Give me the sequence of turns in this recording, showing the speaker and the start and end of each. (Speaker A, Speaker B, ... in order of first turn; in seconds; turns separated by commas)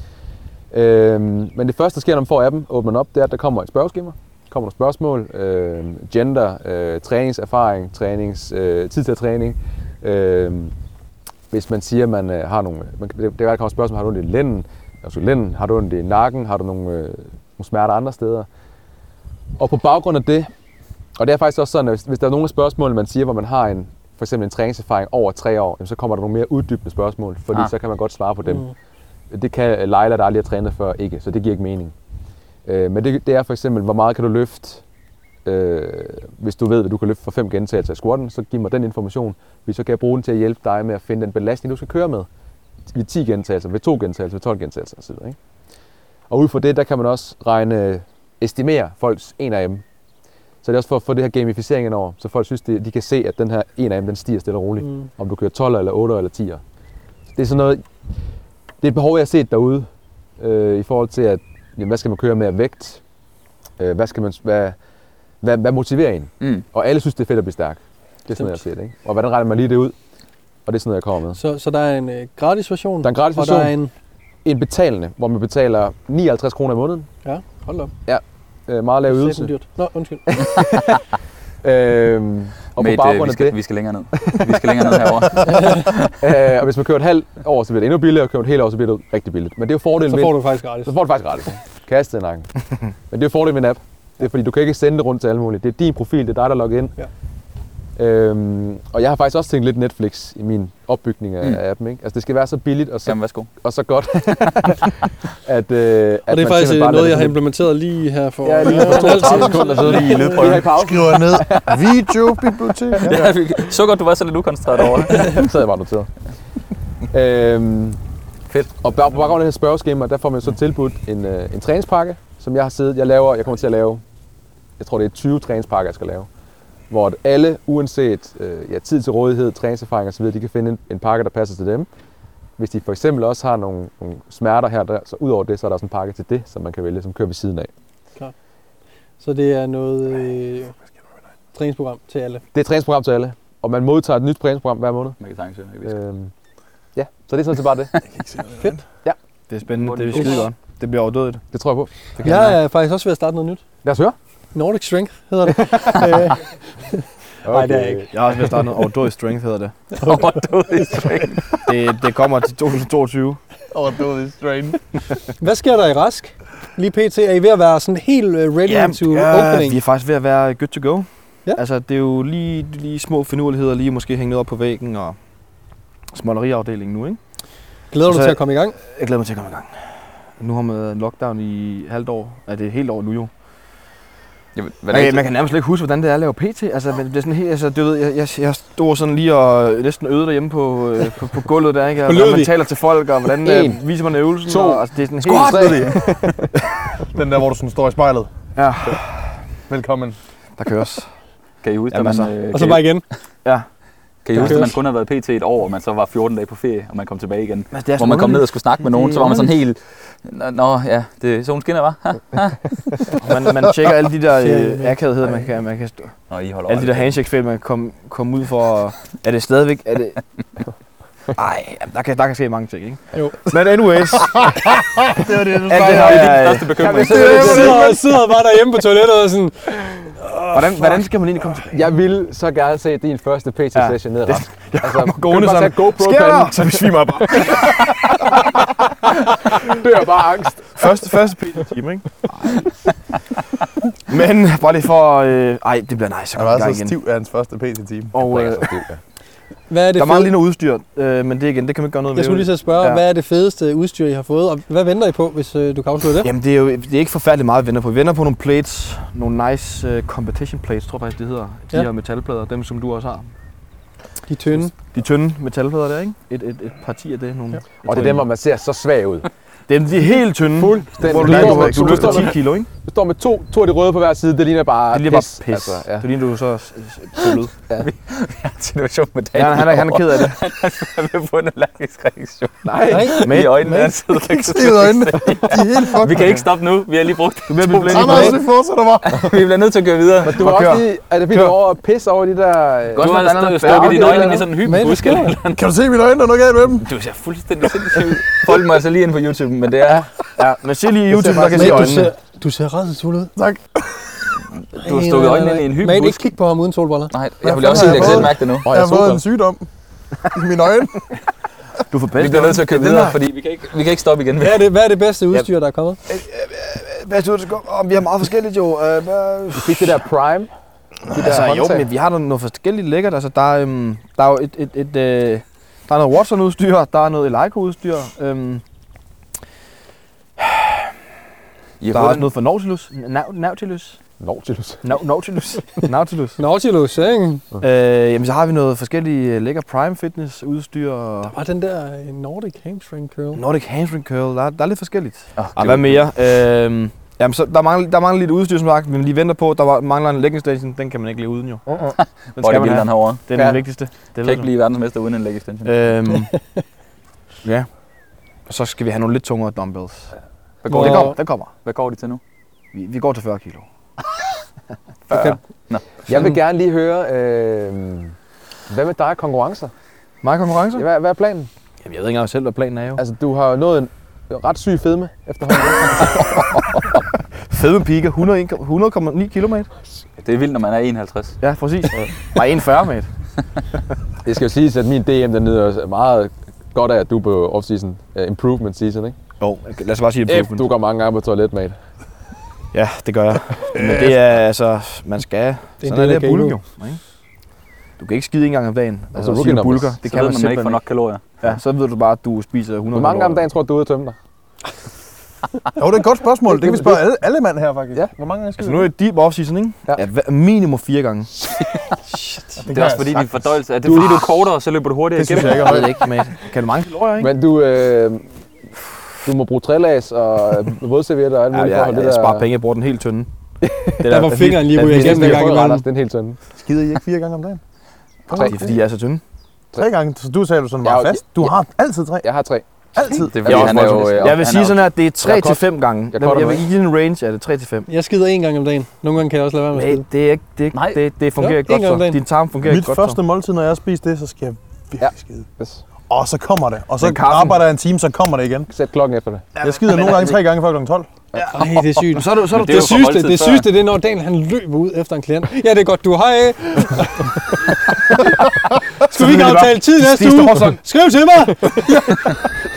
Speaker A: 0.7-10.7, Speaker A: 11.5-18.5, Speaker A: 19.6-20.5, Speaker A: 21.2-28.6, Speaker B: 28.5-28.7, Speaker A: 29.3-31.9, Speaker A: 32.6-34.8, Speaker A: 35.4-42.3, Speaker A: 42.9-45.4, Speaker A: 46.3-49.8, Speaker A: 50.6-56.6, Speaker B: 54.8-55.1, Speaker A: 57.3-57.8, Speaker A: 58.8-59.9, Speaker A: 60.4-63.0, Speaker A: 63.8-64.8, Speaker A: 65.4-69.9, Speaker A: 70.7-71.4, Speaker B: 71.3-73.9, Speaker A: 73.0-73.7, Speaker A: 74.4-77.1, Speaker B: 77.2-77.9, Speaker A: 78.0-79.5, Speaker B: 79.1-80.4, Speaker A: 80.3-81.0, Speaker A: 81.6-83.6, Speaker C: 82.8-86.2, Speaker A: 84.2-84.6, Speaker B: 85.5-85.8, Speaker A: 86.2-92.5, Speaker B: 90.0-90.9, Speaker A: 93.1-96.9, Speaker A: 98.0-107.4, Speaker C: 103.0-103.5, Speaker C: 104.4-104.8, Speaker B: 106.3-110.5, Speaker A: 108.4-112.0, Speaker C: 109.8-110.6, Speaker D: 109.9-113.3, Speaker C: 113.0-115.4, Speaker A: 115.1-116.1, Speaker A: 117.1-118.0, Speaker C: 118.5-118.7, Speaker A: 118.8-124.0, Speaker A: 124.8-126.3, Speaker A: 126.9-131.9, Speaker A: 132.6-137.7, Speaker B: 139.2-140.8, Speaker B: 141.5-142.4, Speaker A: 142.5-145.2, Speaker C: 145.2-145.9, Speaker A: 145.8-146.3, Speaker A: 146.9-147.9, Speaker D: 148.2-148.8, Speaker E: 149.5-151.4, Speaker C: 149.8-150.4, Speaker B: 150.1-150.4, Speaker A: 151.5-151.9, Speaker E: 152.2-152.6, Speaker B: 152.2-153.6, Speaker A: 153.8-154.2, Speaker B: 154.5-158.1, Speaker A: 157.4-158.1, Speaker E: 158.1-159.8, Speaker C: 160.0-161.7, Speaker E: 161.7-163.4, Speaker D: 163.7-164.8, Speaker B: 165.4-169.8, Speaker E: 168.6-175.2, Speaker E: 176.1-177.2, Speaker B: 177.9-178.8, Speaker E: 178.0-183.3, Speaker C: 184.6-185.2, Speaker E: 184.9-196.0, Speaker B: 192.1-192.5, Speaker A: 193.4-193.8, Speaker A: 194.4-196.5, Speaker C: 195.5-195.9, Speaker D: 197.0-198.3, Speaker E: 198.5-199.4, Speaker D: 199.7-200.2, Speaker E: 200.6-201.1, Speaker C: 201.6-203.0, Speaker E: 201.9-202.3, Speaker B: 202.5-203.0, Speaker C: 204.2-212.6, Speaker E: 204.3-204.7, Speaker B: 204.3-204.7, Speaker E: 207.7-209.4, Speaker E: 213.2-216.1, Speaker B: 214.4-215.0, Speaker C: 216.3-217.2, Speaker E: 216.7-220.2, Speaker E: 221.3-224.5, Speaker D: 224.4-226.4, Speaker E: 225.6-227.5, Speaker C: 225.7-227.8, Speaker A: 226.8-228.0, Speaker D: 227.0-227.6, Speaker B: 227.3-231.0, Speaker E: 230.5-231.8, Speaker A: 231.7-240.9, Speaker E: 233.7-237.8, Speaker E: 240.7-242.7, Speaker E: 244.1-246.9, Speaker D: 246.3-248.1, Speaker E: 248.1-248.7, Speaker A: 248.3-249.0, Speaker B: 249.7-250.3, Speaker E: 249.9-253.0, Speaker B: 252.1-256.3, Speaker E: 256.2-263.3, Speaker B: 264.3-264.7, Speaker E: 264.7-268.2, Speaker A: 267.8-269.3, Speaker E: 269.7-272.7, Speaker A: 270.6-276.1, Speaker E: 274.9-277.5, Speaker C: 277.8-288.3, Speaker E: 279.3-280.4, Speaker E: 282.6-283.9, Speaker B: 282.9-283.2, Speaker A: 282.9-283.2, Speaker D: 283.7-286.3, Speaker E: 286.1-286.4, Speaker E: 287.5-288.4, Speaker D: 287.8-289.2, Speaker C: 289.1-290.5, Speaker A: 290.2-293.1, Speaker E: 290.3-290.8, Speaker C: 293.0-295.6, Speaker E: 293.0-294.4, Speaker A: 293.6-294.3, Speaker B: 294.1-295.4, Speaker D: 295.5-296.9, Speaker C: 296.8-300.1, Speaker E: 300.4-302.1, Speaker A: 301.1-302.0, Speaker B: 301.5-303.3, Speaker D: 303.4-304.0, Speaker C: 304.6-306.3, Speaker B: 304.8-307.1, Speaker C: 307.1-308.7, Speaker D: 307.4-309.6, Speaker A: 307.7-309.2, Speaker D: 310.3-311.1, Speaker E: 311.9-313.2, Speaker C: 312.2-314.6, Speaker B: 314.4-316.0, Speaker E: 316.1-320.0, Speaker A: 319.6-320.5, Speaker A: 321.1-321.9, Speaker E: 321.1-328.6, Speaker E: 330.4-330.9, Speaker C: 331.8-332.3, Speaker E: 331.9-334.0, Speaker A: 334.2-335.0, Speaker E: 334.8-336.4, Speaker B: 336.4-337.4, Speaker E: 337.6-341.4, Speaker B: 341.3-343.4, Speaker E: 343.3-354.5, Speaker C: 345.4-346.0, Speaker C: 352.0-353.2, Speaker C: 354.2-355.7, Speaker E: 355.6-356.3, Speaker B: 356.3-356.6, Speaker E: 358.5-360.1, Speaker C: 360.6-362.2, Speaker E: 360.7-361.5, Speaker B: 360.7-361.2, Speaker E: 362.7-363.7, Speaker C: 365.1-366.0, Speaker B: 365.1-365.4, Speaker A: 366.1-368.1, Speaker A: 368.7-369.7, Speaker E: 370.2-370.9, Speaker A: 370.7-371.5, Speaker E: 371.8-373.0, Speaker A: 372.9-377.0, Speaker E: 377.5-379.7, Speaker C: 380.2-381.4, Speaker E: 381.4-383.1, Speaker A: 384.2-389.1, Speaker E: 389.4-390.7, Speaker A: 390.3-391.8, Speaker E: 392.7-397.0, Speaker D: 393.7-394.2, Speaker B: 395.8-396.6, Speaker E: 398.0-400.8, Speaker A: 399.1-399.9, Speaker C: 400.0-401.2, Speaker E: 401.4-403.4, Speaker A: 402.9-404.1, Speaker D: 405.8-408.9, Speaker A: 406.5-407.0, Speaker E: 408.6-411.3, Speaker B: 412.1-412.4, Speaker D: 412.6-414.3, Speaker C: 412.7-415.9, Speaker A: 413.8-414.1, Speaker D: 415.1-416.0, Speaker E: 415.3-417.3, Speaker A: 417.2-418.3, Speaker A: 419.2-422.5, Speaker E: 421.5-423.3, Speaker A: 423.6-424.2, Speaker E: 424.0-425.5, Speaker B: 424.0-425.8, Speaker A: 424.7-426.4, Speaker D: 426.6-427.6, Speaker D: 428.3-428.8, Speaker A: 428.3-428.8, Speaker E: 428.3-429.2, Speaker D: 429.7-432.3, Speaker A: 430.8-431.5, Speaker A: 432.2-434.5, Speaker D: 432.9-433.9, Speaker C: 433.3-434.9, Speaker E: 433.5-437.9, Speaker A: 435.2-436.6, Speaker B: 437.9-440.0, Speaker E: 439.7-443.2, Speaker C: 440.7-441.0, Speaker B: 441.4-442.2, Speaker D: 442.6-445.4, Speaker A: 445.0-445.8, Speaker D: 446.1-448.7, Speaker E: 447.0-447.6, Speaker A: 448.7-449.4, Speaker E: 449.6-450.4, Speaker D: 449.6-451.2, Speaker E: 451.3-453.1, Speaker B: 451.5-458.2, Speaker C: 452.5-453.7, Speaker B: 459.0-462.1, Speaker E: 459.1-460.8